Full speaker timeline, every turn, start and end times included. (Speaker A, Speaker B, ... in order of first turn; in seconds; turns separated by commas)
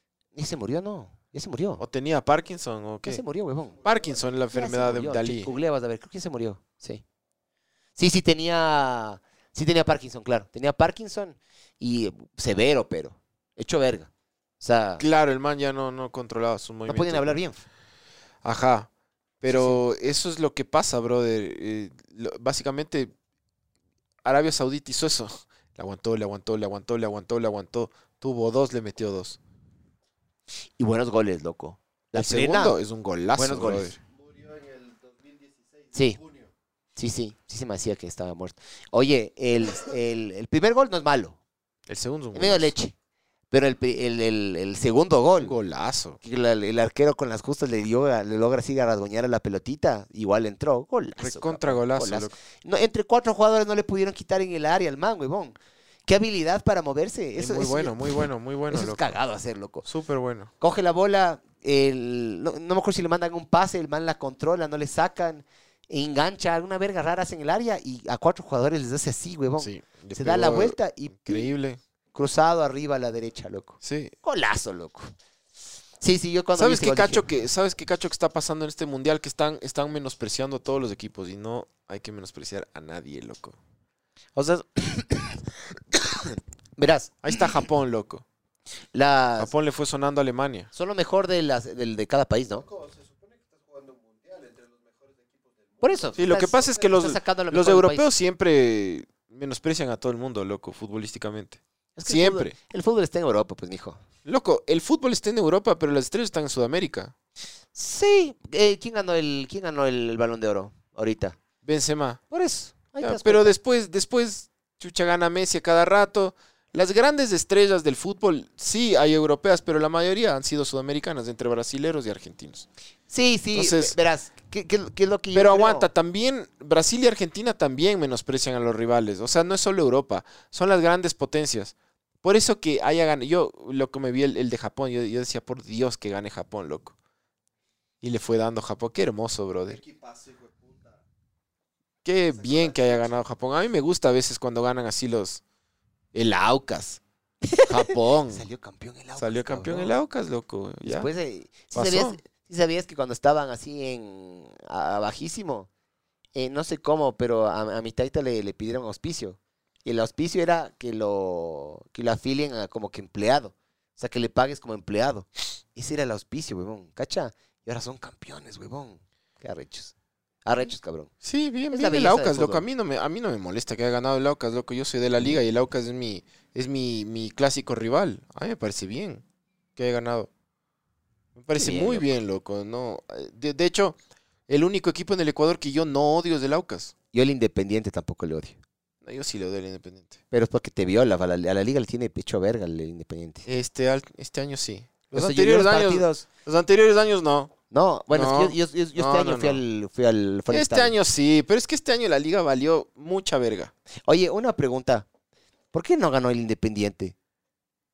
Speaker A: 0.3-1.8, Speaker B: 1.8-3.2, Speaker A: 3.0-3.8, Speaker C: 3.8-4.2, Speaker B: 3.8-5.5, Speaker A: 4.5-7.0, Speaker A: 8.0-14.1, Speaker A: 14.6-15.0, Speaker B: 15.0-17.4, Speaker A: 16.9-17.6, Speaker B: 18.4-18.9, Speaker B: 19.4-23.1, Speaker A: 19.5-19.8, Speaker B: 24.2-29.4, Speaker A: 30.8-32.8, Speaker B: 32.1-34.0, Speaker A: 33.4-33.9, Speaker C: 34.0-36.5, Speaker A: 35.9-36.2, Speaker A: 37.0-41.4, Speaker B: 41.9-42.7, Speaker A: 42.3-42.9, Speaker A: 43.5-45.5, Speaker B: 45.4-46.2, Speaker A: 46.2-55.5, Speaker B: 51.2-52.3, Speaker A: 56.1-58.1, Speaker B: 57.4-59.2, Speaker A: 58.7-59.8, Speaker B: 59.8-60.5, Speaker A: 60.6-71.5, Speaker B: 69.6-71.8, Speaker A: 72.1-75.1, Speaker B: 73.8-74.1, Speaker A: 76.0-77.2, Speaker B: 76.5-83.6, Speaker A: 84.3-87.6, Speaker B: 87.2-88.2, Speaker A: 88.9-89.5, Speaker B: 89.4-90.7, Speaker A: 90.7-92.7, Speaker C: 92.5-96.8, Speaker A: 95.8-98.1, Speaker B: 96.2-102.5, Speaker A: 102.0-104.0, Speaker B: 104.2-107.1, Speaker A: 107.7-111.4, Speaker B: 111.6-112.2, Speaker A: 112.3-113.5, Speaker B: 113.0-122.7, Speaker A: 123.1-125.9, Speaker B: 123.5-124.0, Speaker B: 125.3-136.9, Speaker B: 138.0-139.8, Speaker C: 139.7-141.0, Speaker B: 142.0-145.4, Speaker C: 142.3-143.1, Speaker B: 146.1-147.0, Speaker A: 147.5-149.9, Speaker B: 147.6-148.4, Speaker B: 149.2-151.1, Speaker A: 150.8-155.7, Speaker B: 151.7-152.2, Speaker A: 156.3-169.9, Speaker A: 170.4-171.1, Speaker B: 171.2-179.2, Speaker A: 171.7-172.7, Speaker B: 179.8-180.3, Speaker B: 181.3-184.0, Speaker A: 181.6-182.1, Speaker B: 184.5-186.9, Speaker A: 187.1-188.6, Speaker B: 189.0-190.2, Speaker A: 190.3-193.5, Speaker B: 193.4-197.5, Speaker A: 195.1-196.2, Speaker A: 197.7-200.9, Speaker B: 198.1-199.6, Speaker B: 200.5-203.7, Speaker A: 204.1-205.1, Speaker A: 205.7-207.1